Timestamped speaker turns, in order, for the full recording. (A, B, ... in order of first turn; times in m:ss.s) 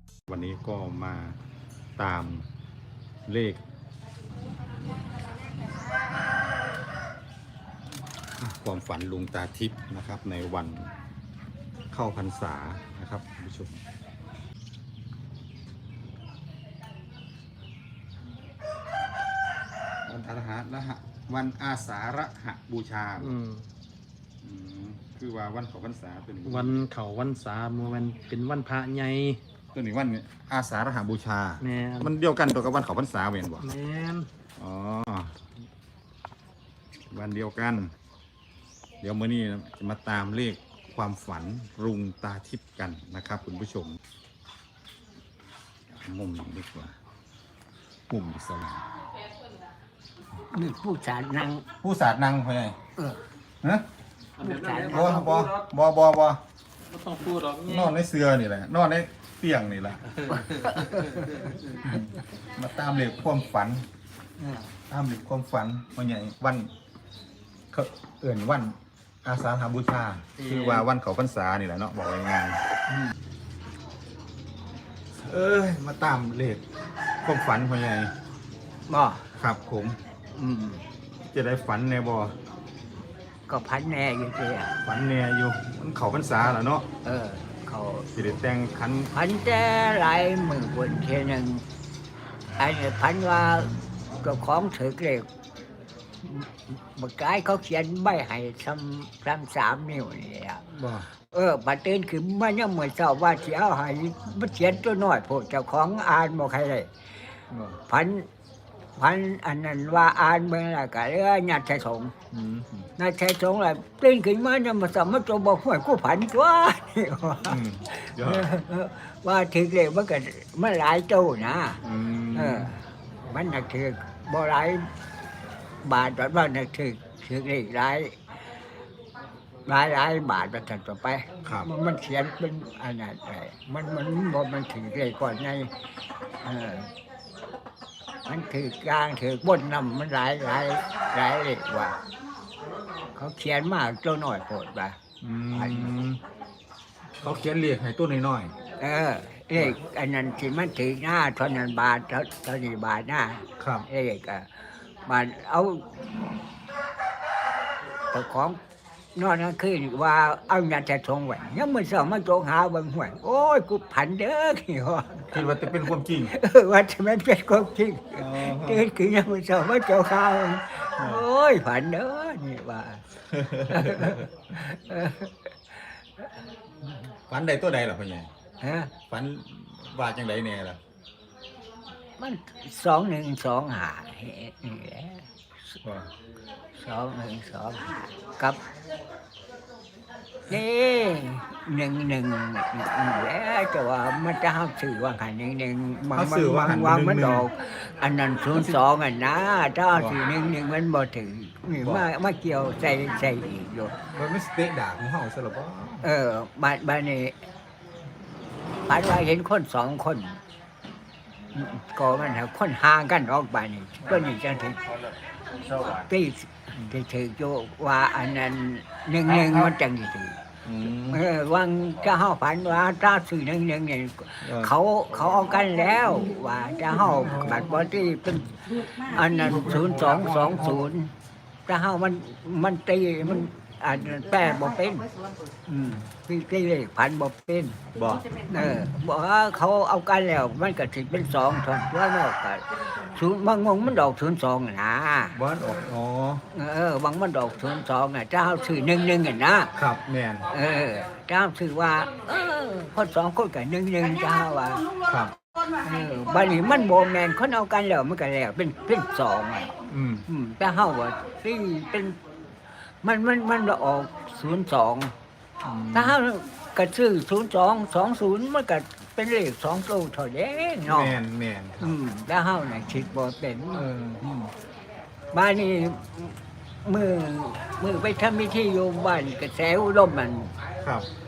0:00.3-0:01.4 A
0:02.0-0:02.4 A
0:03.2-0:03.6 A
0:08.4-0:10.9 A
0:11.9-0:13.8 A
0:20.0-0:23.4 A
0:23.2-0:23.7 B
0:24.4-0:26.8 A
0:26.4-0:29.4 B
0:29.7-0:33.6 A
0:31.6-0:32.1 B
0:33.6-0:34.3 B
0:34.6-0:35.3 A
0:37.1-0:37.9 A
0:39.0-0:44.0 A
0:45.9-0:46.9 A
0:48.1-0:48.8 A
0:50.4-0:51.7 C
0:51.8-0:52.8 A
0:54.4-0:55.6 B
0:54.4-0:55.3 C
0:54.8-0:56.4 A
0:56.8-0:57.9 B
0:57.6-1:00.0 A
1:00.2-1:01.5 B
1:00.4-1:01.6 C
1:01.9-1:03.8 A
1:04.9-1:06.7 A
1:07.7-1:12.6 A
1:10.4-1:10.8 B
1:15.1-1:16.6 A
1:17.2-1:18.1 A
1:18.9-1:19.3 C
1:19.4-1:20.0 A
1:20.3-1:20.8 C
1:21.3-1:22.4 A
1:23.5-1:24.7 C
1:24.8-1:26.8 A
1:27.0-1:28.1 C
1:28.1-1:29.1 A
1:29.1-1:31.6 C
1:32.6-1:35.3 C
1:36.2-1:40.6 C
1:40.7-1:41.1 A
1:41.3-1:46.9 C
1:47.5-1:47.8 A
1:47.9-1:48.3 C
1:49.0-1:52.1 C
1:52.3-1:52.9 A
1:53.0-2:01.8 C
1:57.4-1:58.5 A
2:01.8-2:02.7 A
2:02.3-2:04.9 C
2:05.8-2:08.2 C
2:09.6-2:15.7 C
2:11.4-2:11.7 A
2:16.4-2:16.9 C
2:18.2-2:22.0 C
2:23.1-2:25.0 C
2:25.2-2:26.2 A
2:25.5-2:25.9 C
2:27.2-2:28.5 A
2:28.8-2:34.5 C
2:33.6-2:33.8 A
2:35.0-2:35.9 C
2:38.1-2:38.6 C
2:39.1-2:45.4 C
2:45.3-2:46.3 A
2:46.3-2:53.0 C
2:48.1-2:48.9 A
2:51.0-2:51.2 A
2:53.3-2:54.3 A
2:53.7-2:56.3 C
2:57.3-2:58.3 A
2:58.6-2:58.9 C
2:59.1-3:00.8 A
3:02.2-3:05.3 C
3:05.8-3:06.1 A
3:06.7-3:08.6 C
3:10.5-3:24.0 C
3:16.1-3:17.5 A
3:19.9-3:20.2 A
3:21.8-3:22.1 A
3:24.1-3:26.0 A
3:26.0-3:27.4 C
3:28.8-3:30.4 C
3:31.5-3:34.8 C
3:34.0-3:35.0 A
3:35.5-3:36.1 A
3:35.9-3:40.4 C
3:40.6-3:41.2 A
3:41.1-3:51.1 C
3:44.4-3:44.7 A
3:49.4-3:50.9 A
3:51.6-3:55.1 C
3:55.7-3:57.8 C
3:57.9-3:58.2 A
3:58.5-4:05.4 C
4:05.3-4:06.4 A
4:06.5-4:09.7 C
4:09.8-4:10.5 A
4:10.5-4:14.9 C
4:15.0-4:15.3 A
4:15.8-4:19.7 C
4:19.9-4:20.2 A
4:20.3-4:22.2 C
4:23.0-4:25.1 C
4:25.6-4:26.2 A
4:25.9-4:31.2 C
4:30.8-4:32.0 A
4:31.8-4:34.5 C
4:33.8-4:34.2 A
4:35.3-4:40.5 C
4:40.8-4:41.1 A